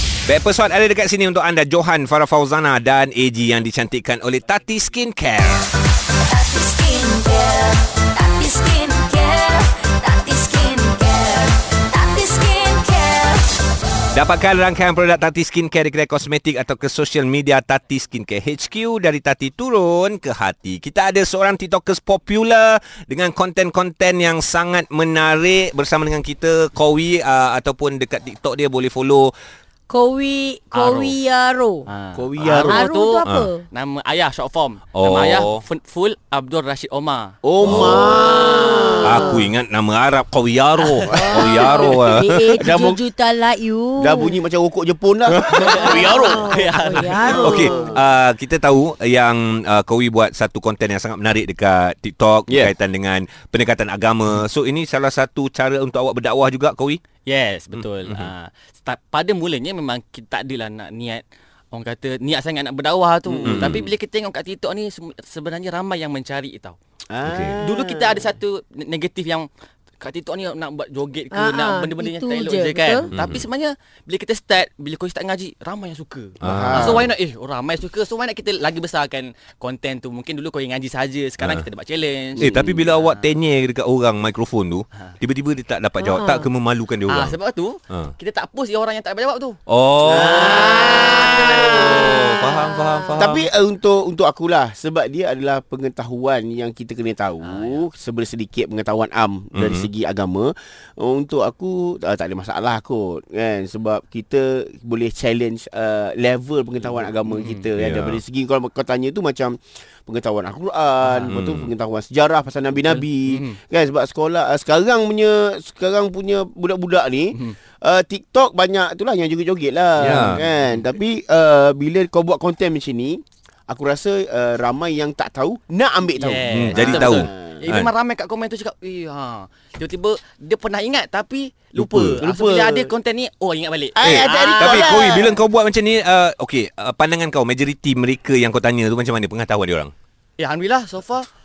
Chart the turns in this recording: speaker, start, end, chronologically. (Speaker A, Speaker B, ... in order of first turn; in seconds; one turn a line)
Speaker A: 0.2-5.7
Speaker B: 6.3-13.5
Speaker A: 14.1-29.3
Speaker C: 29.9-31.9
Speaker D: 30.7-31.1
Speaker D: 31.9-37.3
Speaker E: 32.1-32.8
Speaker C: 32.7-33.6
Speaker A: 35.0-35.6
Speaker E: 37.4-39.5
Speaker A: 37.6-38.2
Speaker D: 38.0-38.9
Speaker C: 38.3-39.5
Speaker A: 39.0-42.6
Speaker D: 40.8-41.8
Speaker C: 41.1-44.3
Speaker E: 41.1-41.5
Speaker E: 42.6-43.0
Speaker E: 44.0-46.5
Speaker A: 45.3-45.7
Speaker C: 45.7-48.0
Speaker D: 45.7-47.7
Speaker E: 47.1-48.0
Speaker A: 47.4-57.0
Speaker E: 52.5-52.7
Speaker D: 57.2-66.8
Speaker A: 57.7-58.3
Speaker E: 63.3-63.8
Speaker A: 63.4-63.9
Speaker E: 67.1-68.3
Speaker A: 67.2-67.5
Speaker D: 67.6-69.5
Speaker D: 70.0-83.3
Speaker C: 71.3-73.1
Speaker A: 73.1-73.4
Speaker A: 76.4-77.1
Speaker E: 76.4-77.1
Speaker E: 82.3-82.7
Speaker A: 82.4-87.4
Speaker C: 86.0-86.5
Speaker D: 87.1-89.6
Speaker A: 89.7-90.6
Speaker E: 90.0-92.1
Speaker D: 90.2-91.7
Speaker C: 91.0-93.3
Speaker A: 91.3-93.5
Speaker E: 93.2-127.7
Speaker D: 97.4-97.8
Speaker A: 99.5-99.9
Speaker D: 106.8-107.7
Speaker A: 107.8-108.2
Speaker D: 111.0-111.3
Speaker A: 111.3-111.7
Speaker D: 112.9-113.6
Speaker A: 120.0-120.4
Speaker D: 120.0-120.8
Speaker D: 126.1-135.0
Speaker A: 126.5-127.9
Speaker E: 131.8-132.9
Speaker A: 131.8-132.2
Speaker E: 133.9-135.3
Speaker A: 134.0-139.9
Speaker D: 140.4-141.3